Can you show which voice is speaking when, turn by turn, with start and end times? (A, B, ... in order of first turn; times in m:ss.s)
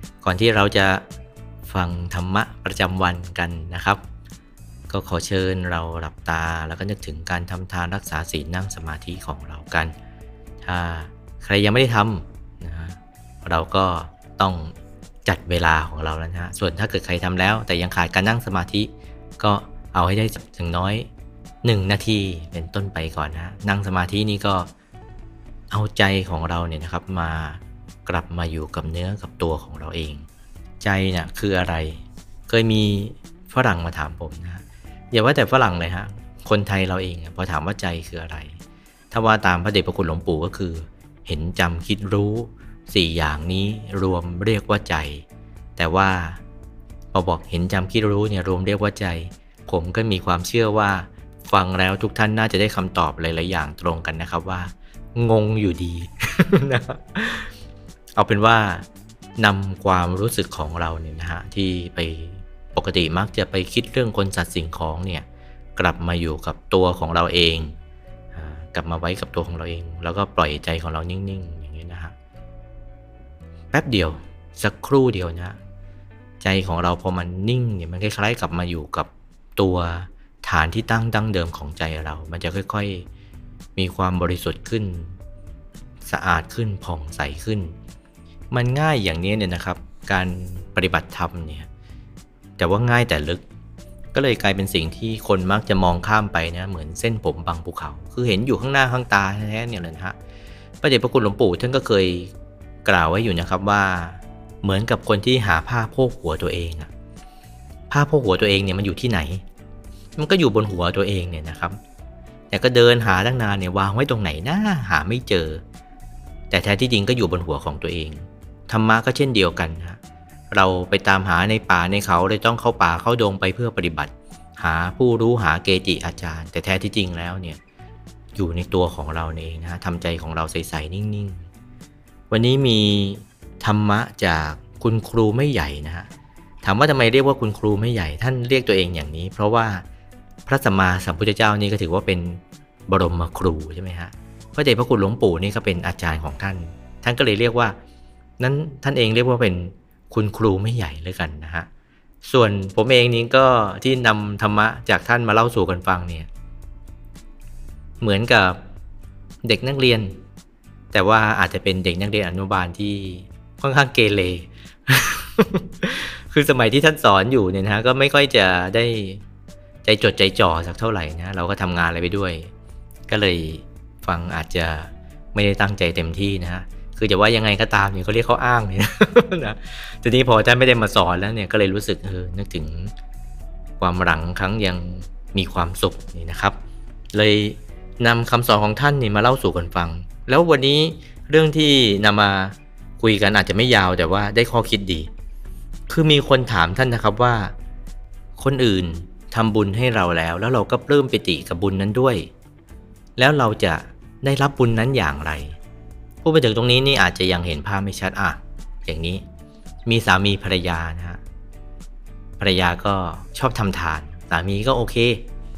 0:00.2-0:01.0 A
0:01.7-0:04.0 A
0:04.9-0:09.9 A
0:10.6-0:21.1 A
0:21.6-0:24.7 A
0:25.7-0:30.3 A
0:30.8-0:38.6 A
0:39.1-0:45.2 A
0:45.8-0:46.4 A
0:47.1-0:57.5 A
0:58.2-0:58.8 A
0:59.4-1:07.8 A
1:08.3-1:12.1 A
1:13.7-1:15.6 A
1:16.4-1:23.1 A
1:23.8-1:25.2 A
1:26.0-1:27.8 A
1:28.5-1:31.7 A
1:32.6-1:33.4 A
1:34.1-1:40.2 A
1:40.8-1:42.3 A
1:42.8-1:46.9 A
1:47.9-1:49.4 A
1:50.2-1:51.8 A
1:52.5-1:55.6 A
1:56.5-2:00.0 A
2:00.5-2:07.6 A
2:08.4-2:11.5 A
2:12.3-2:16.1 A
2:16.6-2:19.8 A
2:20.5-2:27.8 A
2:28.4-2:31.7 A
2:32.2-2:36.3 A
2:38.0-2:38.6 A
2:39.4-2:40.2 A
2:40.9-2:49.2 A
2:49.8-2:52.5 A
2:53.1-3:02.9 A
3:03.8-3:06.6 A
3:07.1-3:15.1 A
3:15.9-3:17.5 A
3:18.4-3:22.3 A
3:23.2-3:25.6 A
3:26.2-3:29.2 A
3:29.9-3:31.2 A
3:32.4-3:35.2 A